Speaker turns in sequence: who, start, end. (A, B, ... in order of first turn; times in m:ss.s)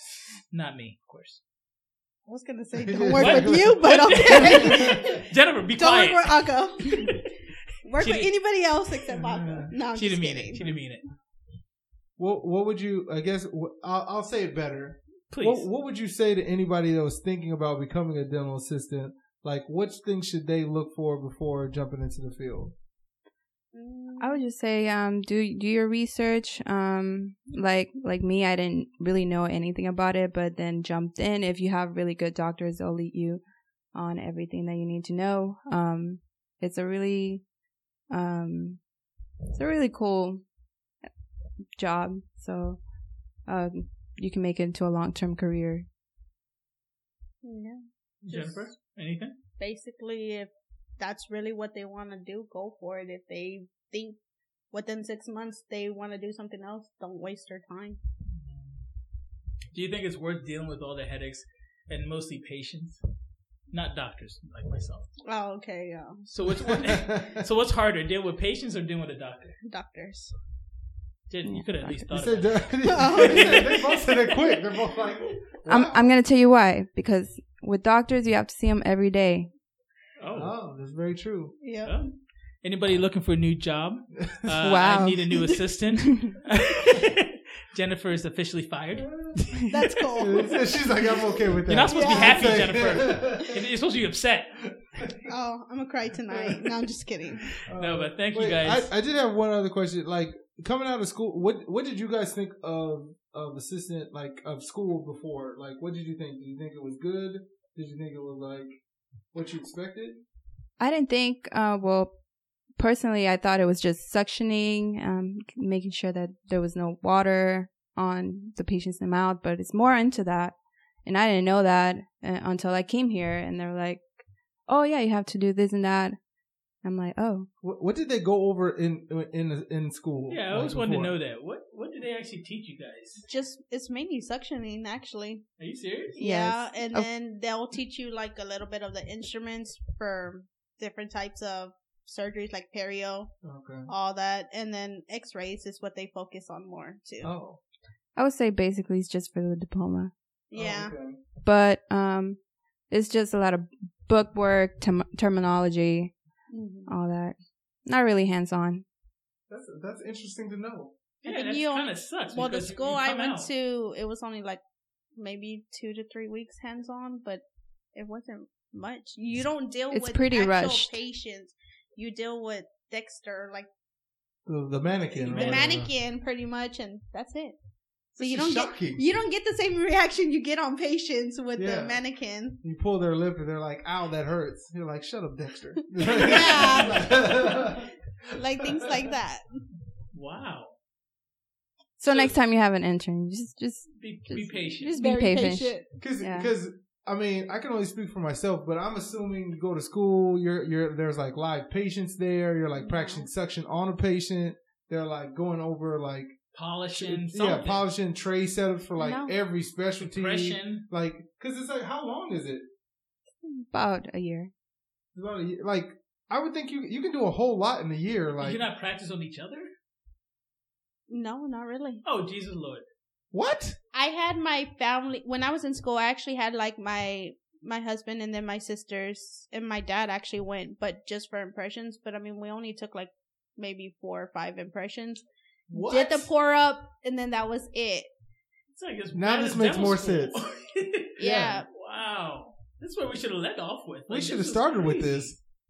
0:00.5-0:01.4 A
0:02.3-0:05.2 B
0:02.8-0:05.0 C
0:03.2-0:07.2 A
0:05.8-0:07.3 B
0:07.8-0:10.6 B
0:08.0-0:08.3 A
0:09.1-0:09.7 C
0:09.2-0:11.0 A
0:12.2-0:22.7 C
0:15.3-0:15.7 A
0:23.7-0:24.4 B
0:24.2-0:33.4 D
0:33.9-0:37.4 D
0:38.1-0:38.8 D
0:39.5-0:40.4 D
0:41.8-0:42.8 D
0:43.5-0:45.9 D
0:47.4-0:48.7 B
0:48.2-0:49.4 A
0:49.6-0:54.2 B
0:54.7-0:58.0 B
0:58.4-0:58.8 A
0:59.7-1:03.0 A
1:03.7-1:05.1 A
1:05.2-1:06.3 B
1:06.3-1:09.6 A
1:06.6-1:07.4 C
1:09.6-1:10.3 B
1:11.3-1:14.5 A
1:11.4-1:12.1 D
1:12.1-1:16.2 C
1:12.8-1:13.8 B
1:15.7-1:19.5 D
1:20.2-1:20.5 A
1:20.3-1:21.5 C
1:21.6-1:22.0 B
1:21.8-1:22.1 A
1:22.6-1:30.0 A
1:24.6-1:26.4 D
1:29.7-1:30.8 B
1:30.2-1:33.6 C
1:31.7-1:34.5 A
1:31.9-1:32.6 B
1:35.0-1:35.2 C
1:35.3-1:37.6 B
1:36.3-1:36.6 C
1:37.6-1:48.7 C
1:37.7-1:38.9 A
1:49.3-1:50.2 C
1:50.8-1:52.1 D
1:52.8-2:04.1 D
2:04.7-2:06.2 D
2:06.8-2:07.5 D
2:07.6-2:11.2 C
2:10.3-2:13.3 A
2:13.3-2:15.4 B
2:15.6-2:16.2 A
2:16.2-2:23.3 B
2:16.2-2:17.1 D
2:23.4-2:23.9 C
2:23.9-2:27.3 B
2:27.2-2:27.6 C
2:28.2-2:30.1 D
2:30.5-2:30.9 B
2:30.5-2:31.2 C
2:31.4-2:32.4 D
2:32.9-2:36.1 D
2:36.5-2:36.9 B
2:36.9-2:37.4 D
2:37.9-2:38.8 D
2:39.5-2:40.9 C
2:41.2-2:43.5 A
2:41.2-2:44.6 B
2:45.2-2:47.4 B
2:48.0-2:53.7 B
2:49.9-2:51.0 D
2:54.5-2:55.9 C
2:55.2-2:57.6 B
2:55.2-2:55.8 A
2:58.2-2:59.0 C
2:58.2-3:02.6 B
3:01.6-3:02.0 C
3:02.6-3:07.9 C
3:06.0-3:07.8 B
3:08.3-3:09.4 B
3:08.5-3:08.8 C
3:10.1-3:10.8 A
3:12.0-3:16.5 D
3:12.1-3:12.4 A
3:14.0-3:15.0 A
3:14.8-3:15.9 B
3:16.0-3:26.3 C
3:22.8-3:23.3 B
3:26.5-3:27.8 A
3:26.9-3:32.6 C
3:29.0-3:29.3 B
3:30.0-3:30.8 A
3:33.4-3:34.5 D
3:35.2-3:38.6 C
3:38.4-3:39.7 A
3:41.1-3:42.0 B
3:42.0-3:42.8 A
3:43.3-3:43.8 C
3:43.9-3:58.1 B
3:55.7-3:56.3 C
3:58.8-4:05.4 A
3:59.1-4:00.4 C
4:01.2-4:01.7 B
4:01.2-4:01.6 C
4:04.1-4:05.4 C